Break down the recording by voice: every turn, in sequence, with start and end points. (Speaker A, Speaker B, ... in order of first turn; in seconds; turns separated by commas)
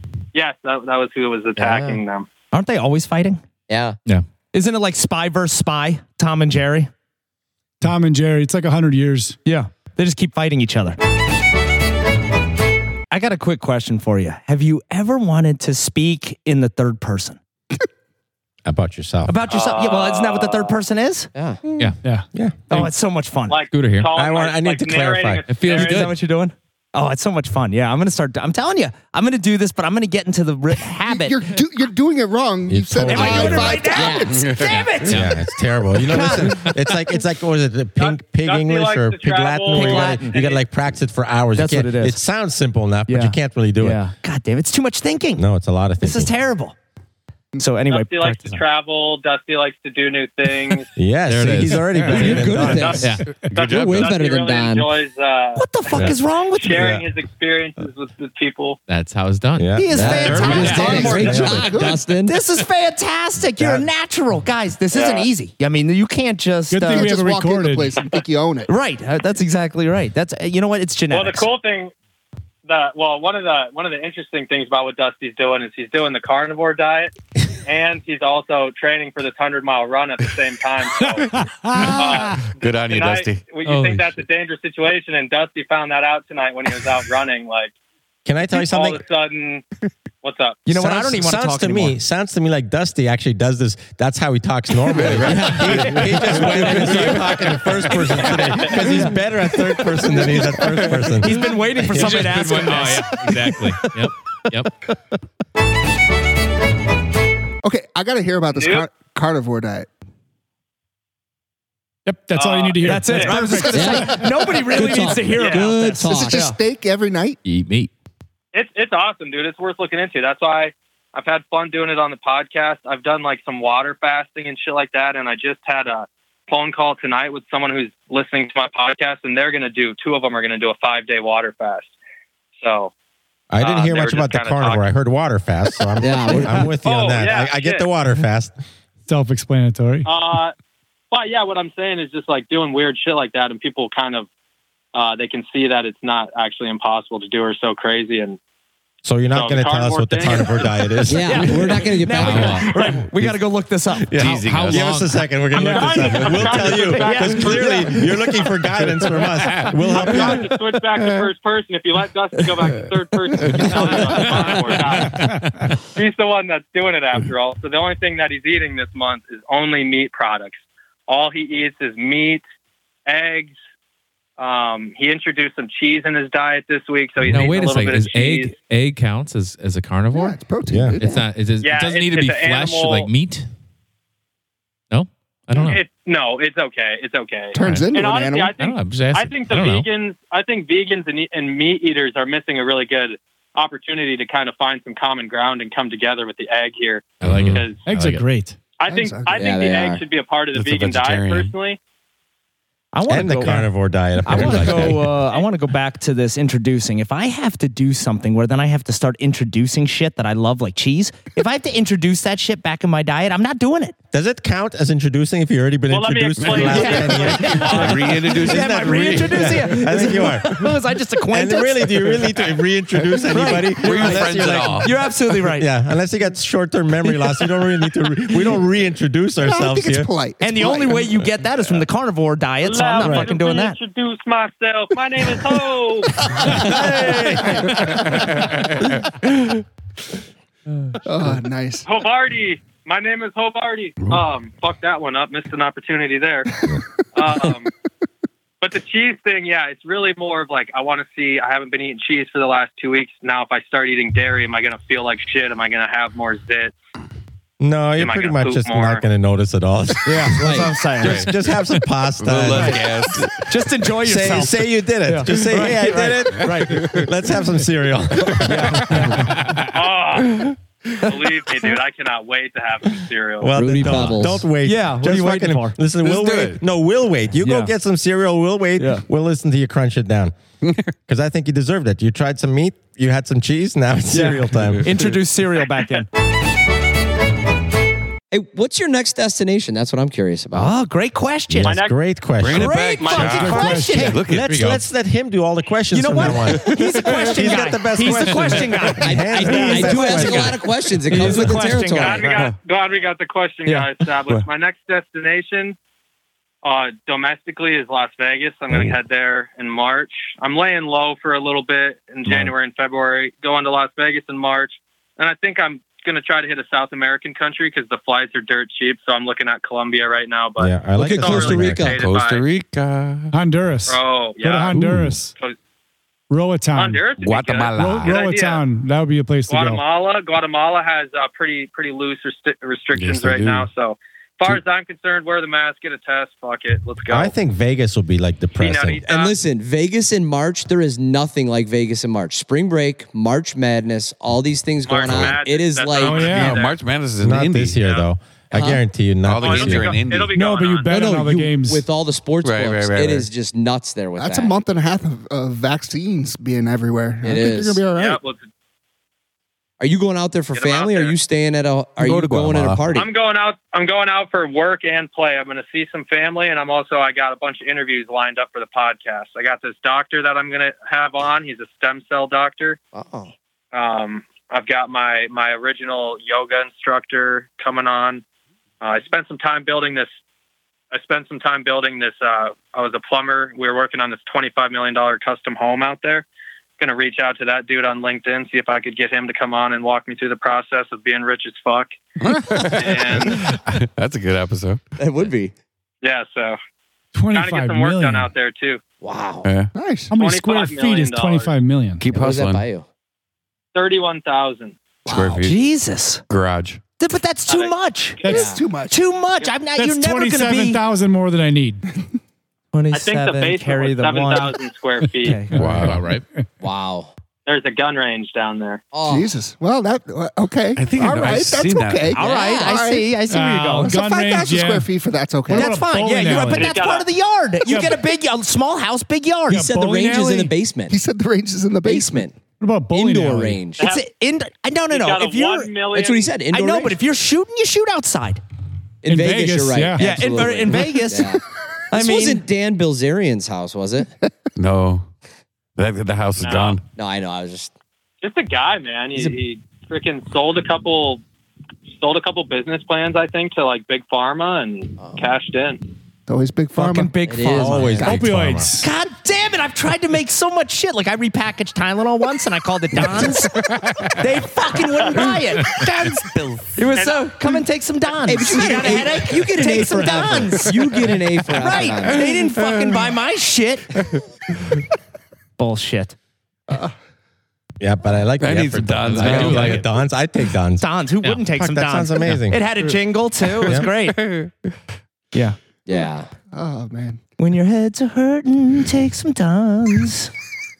Speaker A: 0.3-2.3, Speaker B: 1.6-2.0, Speaker C: 2.5-3.4, Speaker B: 3.7-4.0, Speaker C: 4.5-6.9, Speaker D: 7.8-9.4, Speaker C: 9.4-11.0, Speaker C: 13.1-17.4, Speaker E: 18.7-19.4, Speaker C: 19.3-21.3, Speaker A: 19.5-20.8, Speaker B: 21.4-21.6, Speaker C: 22.7-23.6, Speaker A: 23.5-26.1, Speaker F: 23.7-24.1, Speaker E: 24.1-25.4, Speaker F: 25.5-26.2, Speaker C: 25.7-31.4, Speaker G: 31.0-34.4, Speaker E: 32.7-33.9, Speaker C: 33.0-35.3, Speaker B: 33.9-34.4, Speaker H: 34.3-34.8, Speaker F: 34.6-35.5, Speaker E: 35.1-44.0, Speaker C: 36.0-36.8, Speaker F: 36.5-36.8, Speaker A: 38.0-40.6, Speaker C: 39.7-40.4, Speaker C: 41.5-42.2, Speaker C: 43.1-45.5, Speaker E: 45.4-46.3, Speaker C: 46.0-46.8, Speaker C: 47.6-48.6, Speaker A: 47.9-51.0, Speaker E: 51.0-53.1, Speaker F: 51.3-53.3, Speaker B: 52.1-54.9, Speaker A: 52.7-55.7, Speaker H: 53.4-54.2, Speaker C: 55.6-57.0, Speaker A: 56.5-58.8, Speaker E: 56.8-57.0, Speaker F: 58.9-61.1, Speaker E: 59.6-61.7, Speaker C: 59.8-67.2, Speaker B: 59.9-62.3, Speaker G: 60.5-62.0, Speaker A: 60.8-61.5, Speaker E: 63.6-63.9, Speaker A: 64.9-65.3, Speaker D: 66.7-67.9, Speaker G: 66.9-68.7, Speaker C: 68.7-71.5, Speaker A: 71.1-71.9, Speaker A: 72.7-77.1, Speaker A: 77.7-81.3, Speaker D: 81.3-82.5, Speaker H: 81.8-83.5, Speaker A: 81.8-87.7, Speaker F: 83.6-84.1, Speaker E: 88.3-89.0, Speaker A: 88.5-89.6, Speaker A: 90.2-90.7, Speaker C: 90.7-92.0, Speaker E: 90.7-102.3, Speaker H: 94.9-97.2, Speaker B: 95.2-97.0, Speaker C: 96.6-97.1, Speaker C: 98.3-99.2, Speaker A: 98.3-98.9, Speaker C: 101.1-103.6, Speaker F: 101.9-104.7, Speaker G: 107.6-109.9, Speaker A: 108.5-108.9, Speaker D: 112.1-114.3, Speaker A: 112.3-113.4, Speaker C: 112.8-116.6, Speaker B: 113.5-116.5, Speaker A: 115.3-115.7, Speaker G: 115.9-117.4, Speaker F: 117.5-117.9, Speaker A: 118.5-131.9, Speaker A: 132.6-132.9, Speaker E: 133.5-138.5, Speaker A: 133.6-134.9, Speaker B: 136.0-136.7, Speaker A: 136.7-137.9, Speaker D: 139.1-140.1, Speaker A: 140.1-140.6, Speaker A: 141.1-144.3, Speaker A: 144.9-148.4, Speaker E: 149.1-151.8, Speaker A: 149.3-150.8, Speaker B: 151.1-152.7, Speaker C: 151.1-154.1, Speaker F: 152.2-152.7, Speaker H: 154.1-154.9, Speaker E: 154.1-160.6, Speaker F: 154.2-155.3, Speaker C: 155.6-155.9, Speaker A: 155.7-157.8, Speaker C: 156.5-158.2, Speaker H: 158.8-160.3, Speaker A: 160.0-165.3, Speaker E: 163.7-164.5, Speaker D: 165.1-165.4, Speaker A: 165.9-172.4, Speaker A: 173.1-173.6, Speaker A: 174.4-178.5, Speaker F: 177.2-183.5, Speaker G: 180.1-181.1, Speaker E: 180.7-181.0, Speaker A: 181.6-183.1, Speaker F: 184.9-185.8, Speaker A: 185.6-197.9, Speaker G: 187.5-188.5, Speaker F: 187.6-187.9, Speaker F: 188.6-189.9, Speaker F: 197.2-198.2, Speaker D: 197.8-198.6, Speaker A: 198.8-201.8, Speaker G: 198.9-199.5, Speaker B: 199.3-200.0, Speaker H: 200.5-201.5, Speaker C: 202.9-203.7, Speaker E: 203.1-205.1, Speaker C: 204.2-214.0, Speaker F: 204.3-205.1, Speaker E: 214.1-220.7, Speaker A: 215.9-218.0, Speaker H: 216.4-220.3, Speaker C: 216.6-222.3, Speaker E: 221.3-230.1, Speaker H: 223.2-225.0, Speaker C: 223.3-225.7, Speaker G: 229.4-231.1, Speaker C: 230.4-233.8, Speaker A: 232.6-236.1, Speaker E: 233.0-233.3, Speaker C: 236.3-236.7, Speaker E: 236.4-238.1, Speaker G: 241.0-241.9, Speaker A: 241.9-246.6, Speaker A: 247.2-247.7, Speaker A: 248.6-256.7, Speaker E: 257.6-263.3, Speaker A: 258.0-259.1, Speaker C: 260.1-261.2, Speaker B: 260.4-260.7, Speaker H: 261.0-261.5, Speaker H: 262.2-263.3, Speaker C: 262.5-262.8, Speaker C: 263.4-267.0, Speaker E: 264.0-269.2, Speaker H: 266.7-267.1, Speaker C: 268.4-269.3, Speaker H: 268.8-270.5, Speaker A: 269.7-273.6, Speaker E: 273.4-280.4, Speaker B: 273.4-274.5, Speaker C: 274.6-275.8, Speaker H: 276.0-276.6, Speaker C: 277.4-277.7, Speaker C: 278.8-279.0, Speaker H: 280.6-280.9, Speaker E: 281.0-285.1, Speaker C: 284.1-286.1, Speaker B: 288.3-290.7, Speaker C: 290.5-291.8, Speaker E: 291.5-292.8, Speaker A: 291.6-292.0, Speaker H: 292.4-294.7, Speaker C: 292.5-294.2, Speaker A: 293.0-293.3, Speaker D: 293.2-294.2, Speaker E: 294.2-300.5, Speaker F: 294.5-294.8, Speaker C: 295.9-302.2, Speaker B: 299.0-302.4, Speaker D: 299.4-300.5, Speaker D: 301.2-301.6, Speaker A: 302.0-305.8, Speaker H: 302.3-302.6, Speaker C: 303.7-304.4, Speaker A: 306.6-322.4, Speaker E: 320.6-321.9, Speaker B: 320.9-321.9, Speaker H: 321.8-323.4, Speaker D: 323.3-325.3, Speaker A: 323.9-325.6, Speaker H: 324.7-325.2, Speaker D: 326.3-327.1, Speaker A: 326.7-328.6, Speaker H: 327.1-328.3, Speaker D: 327.7-329.8, Speaker A: 329.5-337.4, Speaker H: 332.9-333.7, Speaker E: 337.1-339.1, Speaker A: 338.6-339.3, Speaker B: 339.0-346.3, Speaker A: 344.9-346.8, Speaker D: 346.0-346.6, Speaker H: 346.2-347.8, Speaker E: 347.2-350.0, Speaker A: 347.8-348.1, Speaker B: 348.5-348.8, Speaker H: 349.2-350.4, Speaker A: 349.4-351.0, Speaker D: 349.7-351.9, Speaker B: 350.9-354.5, Speaker H: 352.4-353.3, Speaker G: 354.2-358.2, Speaker B: 357.2-357.9, Speaker A: 357.9-358.5, Speaker B: 359.8-363.1, Speaker A: 360.5-361.2, Speaker H: 362.0-363.0, Speaker A: 362.9-372.8, Speaker B: 372.9-373.3, Speaker A: 373.7-378.2, Speaker A: 378.8-380.1, Speaker A: 380.9-386.3, Speaker A: 386.8-391.9, Speaker H: 392.2-394.9, Speaker D: 392.3-392.7, Speaker A: 392.7-393.5, Speaker B: 395.0-395.5, Speaker A: 396.0-396.6, Speaker D: 397.1-398.3, Speaker A: 397.3-398.8, Speaker B: 399.0-399.5, Speaker H: 399.4-399.7, Speaker G: 399.7-400.1, Speaker D: 400.1-402.1, Speaker A: 400.1-401.5, Speaker H: 402.0-402.7, Speaker B: 402.1-402.9, Speaker A: 403.7-404.8, Speaker H: 405.1-405.7, Speaker G: 405.1-405.4, Speaker C: 405.4-406.2, Speaker H: 406.3-406.8, Speaker C: 407.0-408.3, Speaker A: 407.5-408.4, Speaker B: 408.3-408.6, Speaker G: 408.3-409.0, Speaker C: 408.9-410.8, Speaker D: 409.8-411.8, Speaker C: 412.7-414.5, Speaker A: 412.9-415.4, Speaker C: 415.2-415.7, Speaker D: 415.5-416.4, Speaker H: 415.6-416.2, Speaker F: 415.8-416.2, Speaker B: 416.6-417.1, Speaker A: 417.4-418.8, Speaker B: 418.9-419.3, Speaker G: 419.0-423.1, Speaker H: 420.8-422.1, Speaker B: 422.1-422.8, Speaker C: 422.1-424.0, Speaker D: 423.3-424.9, Speaker G: 423.8-425.8, Speaker D: 425.4-426.8, Speaker C: 425.5-429.7, Speaker A: 426.5-427.1, Speaker D: 427.6-428.1, Speaker D: 429.5-430.5, Speaker B: 429.5-431.0, Speaker G: 430.9-432.3, Speaker B: 431.9-432.4, Speaker D: 432.5-433.6, Speaker B: 433.0-433.8, Speaker A: 433.8-434.0, Speaker C: 433.8-435.7, Speaker A: 434.9-436.4, Speaker B: 435.9-437.0, Speaker C: 436.5-438.4, Speaker B: 439.0-441.4, Speaker D: 439.1-440.2, Speaker C: 440.0-441.4, Speaker C: 441.9-442.4, Speaker B: 441.9-444.1, Speaker H: 444.6-445.1, Speaker H: 445.8-446.9, Speaker A: 446.4-446.8, Speaker B: 446.9-447.7, Speaker A: 448.2-451.2, Speaker A: 451.9-455.8, Speaker B: 455.0-455.3, Speaker G: 456.3-457.4, Speaker C: 456.7-458.2, Speaker B: 457.3-458.1, Speaker E: 457.6-458.8, Speaker D: 458.0-458.9, Speaker C: 458.8-463.6, Speaker C: 464.2-473.9, Speaker H: 466.3-466.6, Speaker A: 466.9-467.4, Speaker B: 468.3-472.2, Speaker D: 469.6-470.6, Speaker H: 472.6-473.1, Speaker C: 475.6-476.2, Speaker E: 477.8-480.9, Speaker H: 478.4-479.9, Speaker F: 479.1-479.9, Speaker C: 480.8-484.2, Speaker E: 481.6-482.6, Speaker H: 482.8-484.7, Speaker B: 485.9-486.3, Speaker G: 486.5-487.2, Speaker C: 487.4-490.3